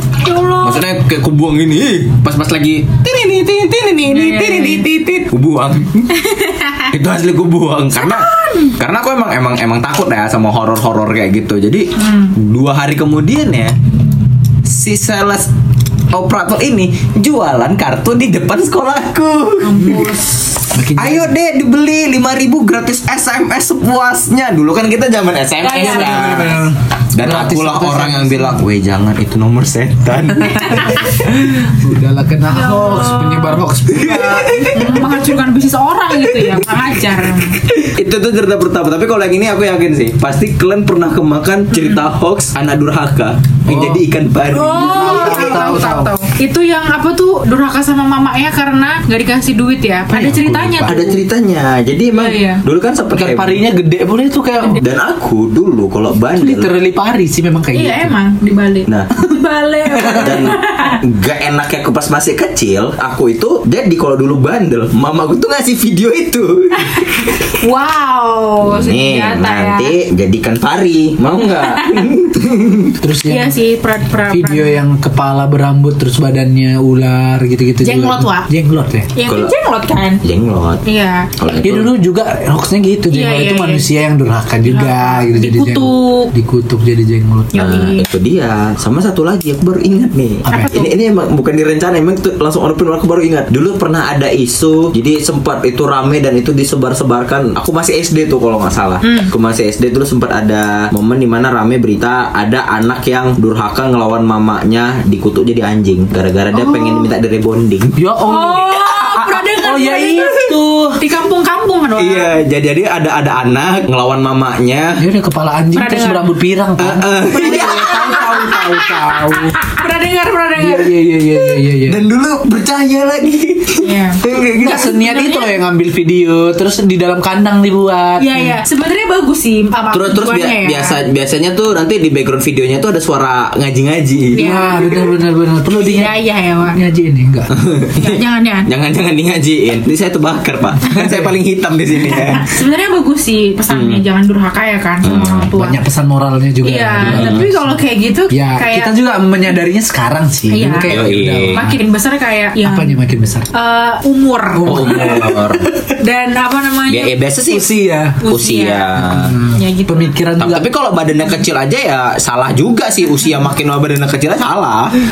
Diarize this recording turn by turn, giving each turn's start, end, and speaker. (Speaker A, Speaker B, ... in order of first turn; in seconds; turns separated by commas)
Speaker A: 0.2-0.8, Speaker B: 0.6-6.1, Speaker A: 4.1-4.8, Speaker A: 6.1-6.9, Speaker B: 6.9-13.7, Speaker A: 8.0-8.8, Speaker A: 12.0-12.3, Speaker B: 14.7-15.5, Speaker B: 16.1-20.1, Speaker A: 19.6-20.4, Speaker C: 20.7-21.3, Speaker B: 21.0-31.1, Speaker A: 25.6-26.7, Speaker C: 25.8-28.6, Speaker A: 30.5-31.0, Speaker C: 31.4-35.0, Speaker A: 32.5-37.6, Speaker B: 34.0-35.2, Speaker B: 37.7-45.6, Speaker A: 41.7-42.1, Speaker C: 43.7-46.1, Speaker A: 44.5-51.2, Speaker C: 50.1-51.1, Speaker B: 50.8-53.6, Speaker A: 52.1-52.6, Speaker C: 53.1-54.8, Speaker B: 54.8-56.7, Speaker C: 56.4-58.1, Speaker A: 57.7-61.0, Speaker C: 59.9-60.4, Speaker B: 60.2-67.0, Speaker A: 66.8-69.9, Speaker B: 68.6-73.0, Speaker A: 71.6-72.0, Speaker C: 73.0-73.5, Speaker A: 73.3-74.8, Speaker C: 74.3-79.1, Speaker A: 77.8-78.5, Speaker A: 79.1-80.2, Speaker B: 79.3-79.5, Speaker B: 80.2-80.8, Speaker A: 80.8-81.3, Speaker B: 81.4-82.0, Speaker C: 81.6-87.7, Speaker A: 83.1-83.9, Speaker A: 84.7-86.3, Speaker A: 87.5-88.1, Speaker B: 87.5-108.0, Speaker C: 90.5-90.8, Speaker A: 90.5-90.9, Speaker A: 99.0-99.3, Speaker A: 106.5-107.1, Speaker C: 108.0-111.0, Speaker A: 108.3-112.3, Speaker B: 112.0-115.0, Speaker C: 115.0-119.6, Speaker A: 115.7-116.3, Speaker B: 116.8-118.6, Speaker A: 117.3-121.5, Speaker C: 120.6-122.0, Speaker B: 121.9-124.9, Speaker A: 123.8-125.6, Speaker C: 124.6-128.6, Speaker A: 128.2-131.0, Speaker B: 129.9-135.0, Speaker A: 134.3-134.9, Speaker C: 134.3-136.1, Speaker A: 135.8-136.8, Speaker C: 136.7-137.5, Speaker B: 137.5-142.5, Speaker A: 138.0-138.7, Speaker C: 141.0-141.3, Speaker A: 142.1-145.8, Speaker B: 143.7-144.0, Speaker B: 145.0-145.5, Speaker C: 145.6-147.8, Speaker A: 146.6-149.0, Speaker B: 147.0-147.5, Speaker C: 148.3-151.8, Speaker A: 150.5-153.0, Speaker B: 150.9-151.7, Speaker C: 152.6-153.5, Speaker A: 153.5-155.4, Speaker C: 154.5-155.9, Speaker B: 154.7-155.7, Speaker A: 156.0-157.2, Speaker B: 156.9-157.7, Speaker C: 157.5-158.2, Speaker A: 158.2-160.2, Speaker B: 158.2-159.4, Speaker C: 159.0-160.7, Speaker B: 160.4-164.9